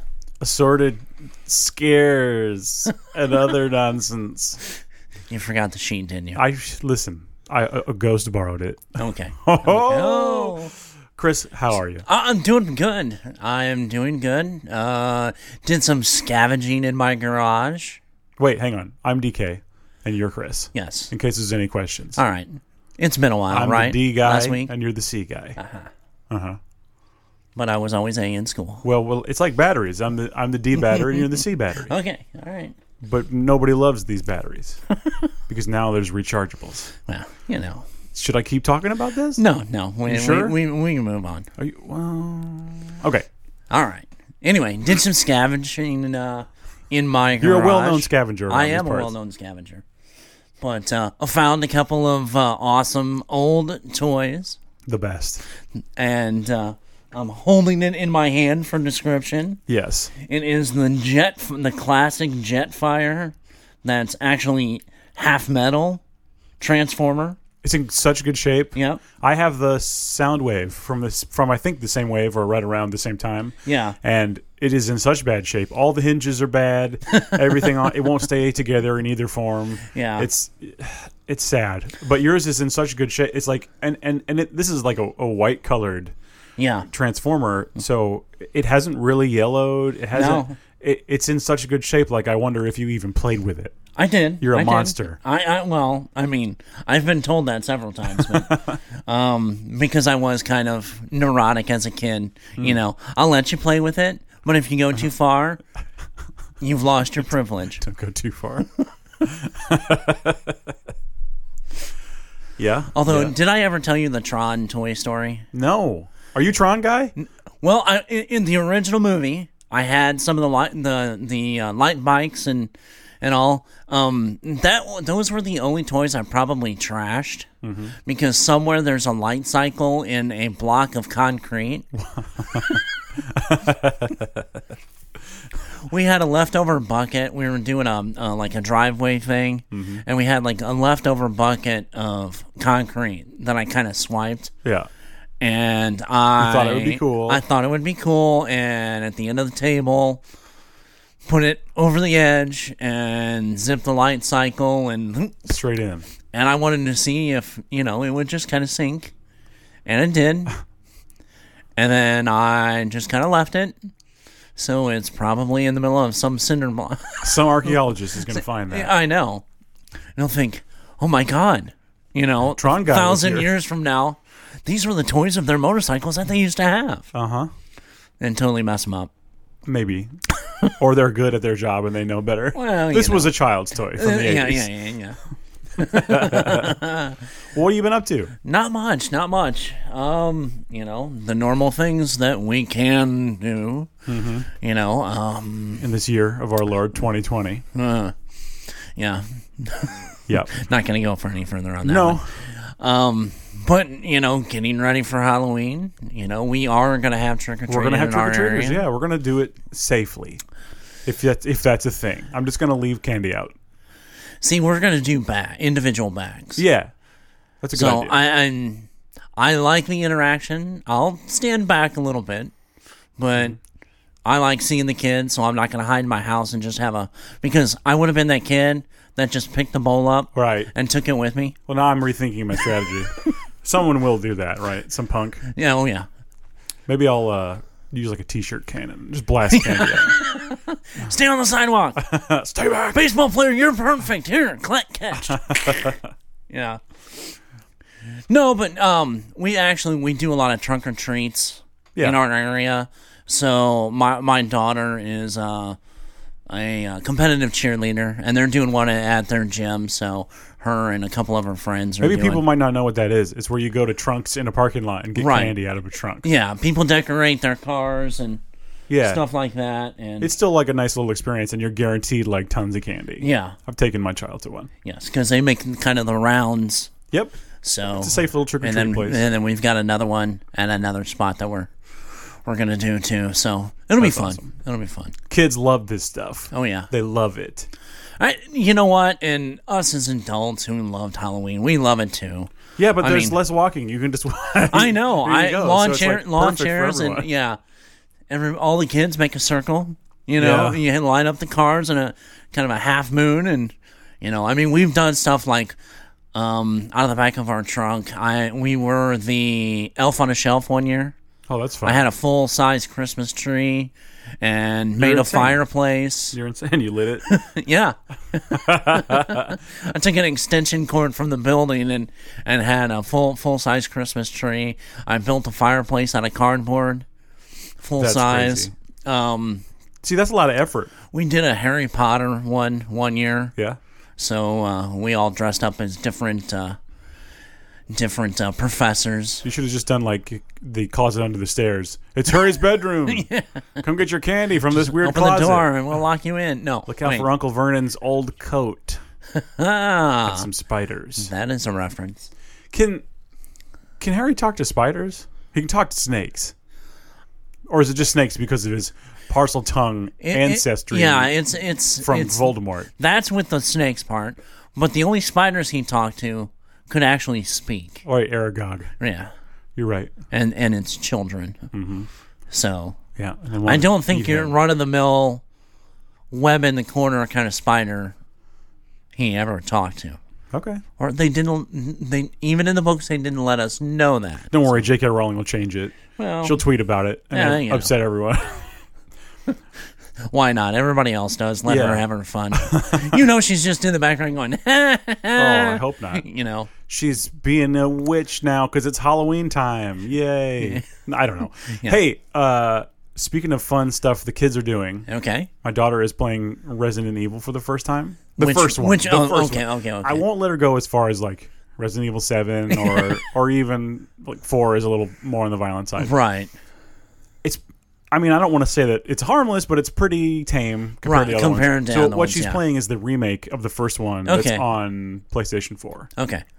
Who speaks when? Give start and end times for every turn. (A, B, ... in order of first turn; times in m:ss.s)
0:00.4-0:04.6 A
0:05.3-0:06.4 B
0:06.4-0:10.6 A
0:09.0-0:10.7 B
0:11.2-0:12.0 A
0:12.0-0:18.0 B
0:18.4-0:22.2 A
0:20.7-0:21.1 B
0:22.2-0:24.7 B
0:23.5-0:25.6 A
0:25.6-0:25.9 B
0:26.3-0:26.6 A
0:27.6-0:28.8 B
0:28.8-0:31.9 A
0:31.0-0:31.3 B
0:31.8-0:32.7 B
0:33.0-0:34.8 A
0:35.0-0:35.3 B
0:35.5-0:36.9 A
0:37.1-0:37.8 B
0:38.1-0:39.4 A
0:39.4-0:41.5 B
0:40.0-0:40.6 A
0:41.6-0:43.3 A
0:43.7-0:49.8 B
0:47.4-0:49.1 A
0:50.6-0:54.6 B
0:54.8-0:55.4 A
0:56.0-0:59.6 B
0:59.7-1:00.1 A
1:00.2-1:06.0 B
1:06.6-1:07.4 B
1:07.6-1:26.1 A
1:08.7-1:09.0 B
1:13.6-1:14.0 B
1:17.1-1:17.4 B
1:19.9-1:20.3 B
1:26.6-1:26.9 B
1:26.9-1:33.8 A
1:30.1-1:30.6 B
1:33.9-1:45.6 B
1:34.4-1:35.2 A
1:38.2-1:38.8 A
1:46.6-1:47.8 B
1:47.8-1:48.7 A
1:49.2-1:50.6 A
1:52.6-1:53.3 A
1:52.9-1:55.4 B
1:55.5-1:57.1 A
1:57.2-2:07.5 B
2:07.6-2:07.9 A
2:08.0-2:11.9 B
2:12.0-2:14.4 A
2:15.9-2:24.5 B
2:19.7-2:20.0 A
2:25.4-2:30.2 B
2:26.4-2:27.4 A
2:31.2-2:35.5 B
2:35.5-2:36.0 A
2:36.3-2:39.1 B
2:39.8-2:40.6 B
2:41.8-2:43.7 B
2:44.6-2:49.4 B
2:47.2-2:48.9 A
2:50.2-2:57.1 B
2:52.5-2:53.5 A
2:57.1-2:57.5 A
2:58.2-2:59.1 B
2:59.6-3:00.1 A
3:00.4-3:00.7 B
3:00.8-3:04.7 A
3:02.5-3:03.3 B
3:03.9-3:05.2 B
3:05.7-3:07.2 B
3:05.8-3:06.8 A
3:07.5-3:08.3 A
3:08.4-3:13.9 B
3:14.1-3:14.5 A
3:14.5-3:15.8 B
3:15.8-3:17.6 A
3:17.7-3:18.1 B
3:19.0-3:28.8 B
3:21.8-3:22.3 A
3:27.7-3:30.4 A
3:31.0-3:33.5 A
3:34.4-3:36.6 B
3:36.6-3:36.9 A
3:37.6-3:38.2 A
3:37.7-3:42.5 B
3:43.2-3:43.6 B
3:44.2-3:51.6 B
3:50.3-3:50.7 A
3:51.7-3:55.5 A
3:55.5-3:56.1 B
3:56.9-4:00.2 A
3:59.5-4:02.1 B
4:02.0-4:03.0 A
4:02.9-4:07.3 B
4:05.3-4:06.0 A
4:08.3-4:15.8 B
4:16.5-4:22.4 B
4:22.0-4:26.2 A
4:25.2-4:25.5 B
4:26.2-4:28.4 B
4:28.9-4:29.2 A
4:29.0-4:30.3 B
4:30.2-4:34.7 A
4:33.2-4:33.6 B
4:34.8-4:36.9 B
4:37.6-4:41.7 B
4:37.9-4:39.2 A
4:42.4-4:45.2 B
4:44.0-4:44.5 A
4:45.3-4:47.7 A
4:46.5-4:46.9 B
4:48.2-4:53.4 B
4:52.8-4:57.3 A
4:54.7-4:57.6 B
4:58.3-5:05.8 B
5:00.4-5:00.8 A
5:06.3-5:11.2 B
5:11.5-5:12.0 A
5:11.8-5:16.4 B
5:15.0-5:15.6 A
5:16.3-5:17.4 A
5:17.3-5:27.0 B
5:18.5-5:19.6 A
5:27.8-5:29.6 B
5:28.0-5:28.7 A
5:30.0-5:30.9 A
5:31.1-5:33.5 B
5:34.2-5:36.8 B
5:37.9-5:39.4 B
5:39.4-5:43.3 A
5:43.0-5:43.6 B
5:43.8-5:45.7 A
5:44.7-5:47.3 B
5:46.9-5:49.0 A
5:49.3-5:50.5 B
5:50.2-5:51.3 A
5:51.2-5:52.3 B
5:52.7-5:53.0 A
5:54.0-5:56.5 A
5:57.7-6:01.3 A
6:00.2-6:08.0 B
6:02.0-6:02.9 A
6:08.0-6:08.9 A
6:09.0-6:09.3 B
6:09.8-6:10.1 A
6:10.3-6:11.7 B
6:11.7-6:12.1 A
6:12.5-6:13.0 B
6:13.2-6:14.5 A
6:13.6-6:15.4 B
6:16.3-6:18.1 B
6:19.1-6:20.2 B
6:20.5-6:20.8 A
6:21.0-6:24.8 B
6:24.5-6:28.7 A
6:26.2-6:26.6 B
6:27.3-6:27.9 B
6:30.3-6:36.7 B
6:31.6-6:33.2 A
6:35.4-6:36.2 A
6:36.9-6:45.1 A
6:41.7-6:42.0 B
6:45.1-6:45.5 B
6:45.6-6:56.1 A
6:48.4-6:50.2 B
6:52.7-6:53.2 B
6:56.0-6:56.5 B
6:57.4-7:06.1 A
7:01.0-7:02.6 B
7:04.2-7:04.6 B
7:06.2-7:06.4 B